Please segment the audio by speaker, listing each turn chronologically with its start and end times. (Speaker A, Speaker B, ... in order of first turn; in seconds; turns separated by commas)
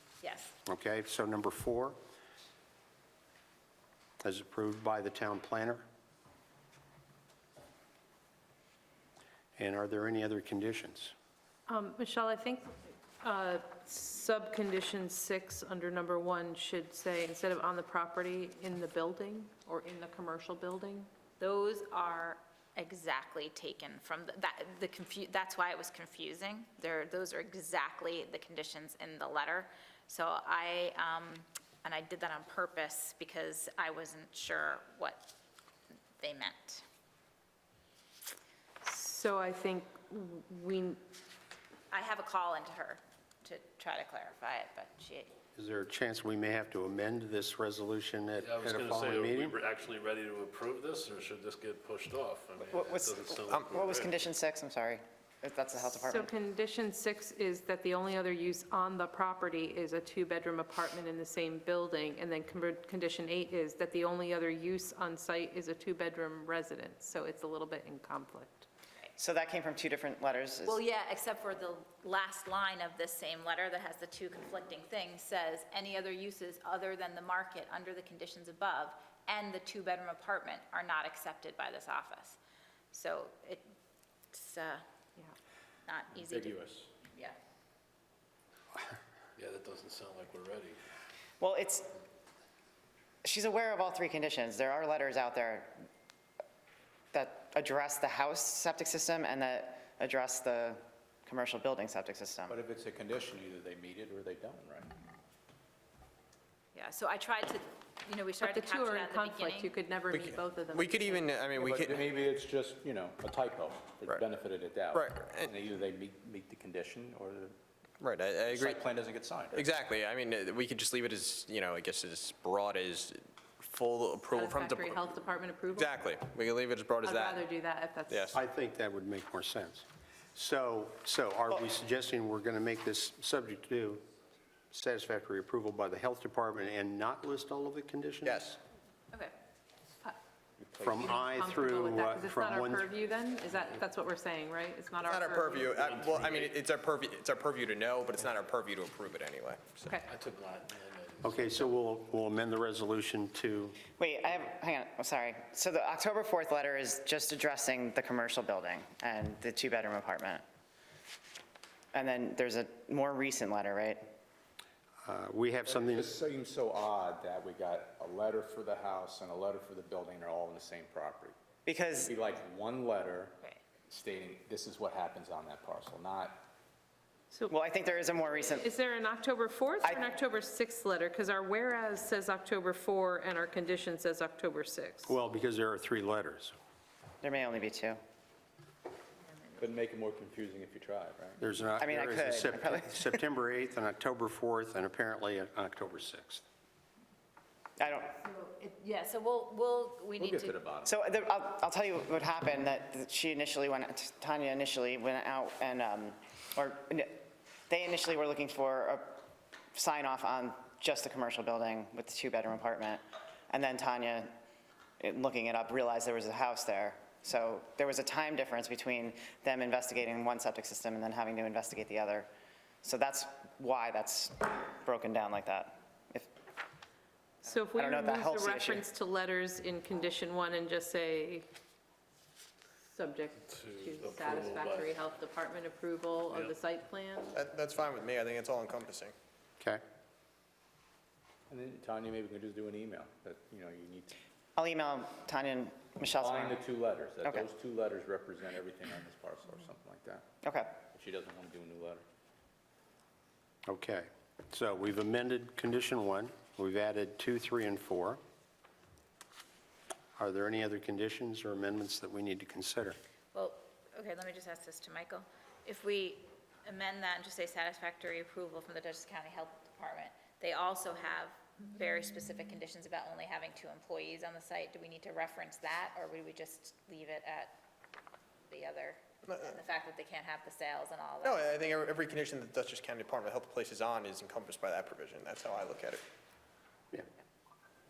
Speaker A: 0.2-0.6, Speaker B: 0.7-2.0, Speaker B: 4.2-5.8, Speaker B: 9.6-11.1, Speaker C: 11.7-21.1, Speaker A: 21.4-35.3, Speaker A: 36.2-36.8, Speaker C: 38.8-41.0, Speaker A: 41.9-45.3, Speaker B: 45.5-49.6, Speaker D: 48.4-54.3, Speaker E: 52.7-56.3, Speaker C: 56.0-68.7, Speaker E: 69.2-70.8, Speaker A: 70.7-82.4, Speaker A: 82.9-83.7, Speaker A: 84.3-84.8, Speaker A: 85.9-87.4, Speaker D: 86.2-86.8, Speaker D: 89.4-90.8, Speaker E: 91.4-91.9, Speaker E: 93.2-95.7, Speaker E: 97.1-102.6, Speaker F: 102.5-104.9, Speaker A: 106.7-109.8, Speaker C: 108.4-111.3, Speaker G: 110.1-112.1, Speaker F: 111.5-117.6, Speaker G: 114.9-115.5, Speaker G: 118.0-118.8, Speaker F: 118.5-119.8, Speaker G: 119.5-125.0, Speaker C: 124.3-125.9, Speaker G: 125.7-127.4, Speaker C: 127.0-128.3, Speaker G: 128.1-128.4, Speaker B: 128.3-134.0, Speaker B: 134.7-138.6, Speaker G: 138.2-138.6, Speaker F: 140.6-141.7, Speaker B: 140.8-142.9, Speaker C: 140.9-145.8, Speaker G: 145.0-149.9, Speaker D: 145.8-146.5, Speaker D: 150.1-151.6, Speaker B: 151.2-153.8, Speaker E: 154.0-160.4, Speaker E: 161.9-164.0, Speaker B: 165.0-166.1, Speaker F: 165.7-171.4, Speaker E: 171.7-172.1, Speaker F: 172.1-176.5, Speaker C: 177.3-177.6, Speaker E: 177.5-178.7, Speaker C: 178.3-185.1, Speaker E: 179.8-180.1, Speaker B: 185.1-186.6, Speaker E: 187.2-188.0, Speaker F: 189.6-191.5, Speaker B: 191.4-196.4, Speaker E: 191.8-193.2, Speaker E: 197.8-198.2, Speaker A: 198.2-200.6, Speaker F: 200.2-201.1, Speaker E: 200.9-209.2, Speaker E: 209.8-214.3, Speaker E: 215.0-222.3, Speaker E: 222.8-226.3, Speaker C: 227.4-231.5, Speaker E: 227.7-228.9, Speaker C: 232.9-237.4, Speaker D: 233.4-235.0, Speaker D: 236.3-236.6, Speaker G: 237.3-239.1, Speaker F: 241.5-244.2, Speaker E: 244.6-246.6, Speaker F: 246.1-250.3, Speaker E: 250.4-250.8, Speaker F: 250.9-252.0, Speaker B: 253.7-258.2, Speaker B: 260.2-263.0, Speaker A: 263.3-277.6, Speaker A: 278.5-281.6, Speaker G: 279.2-279.5, Speaker G: 281.2-286.0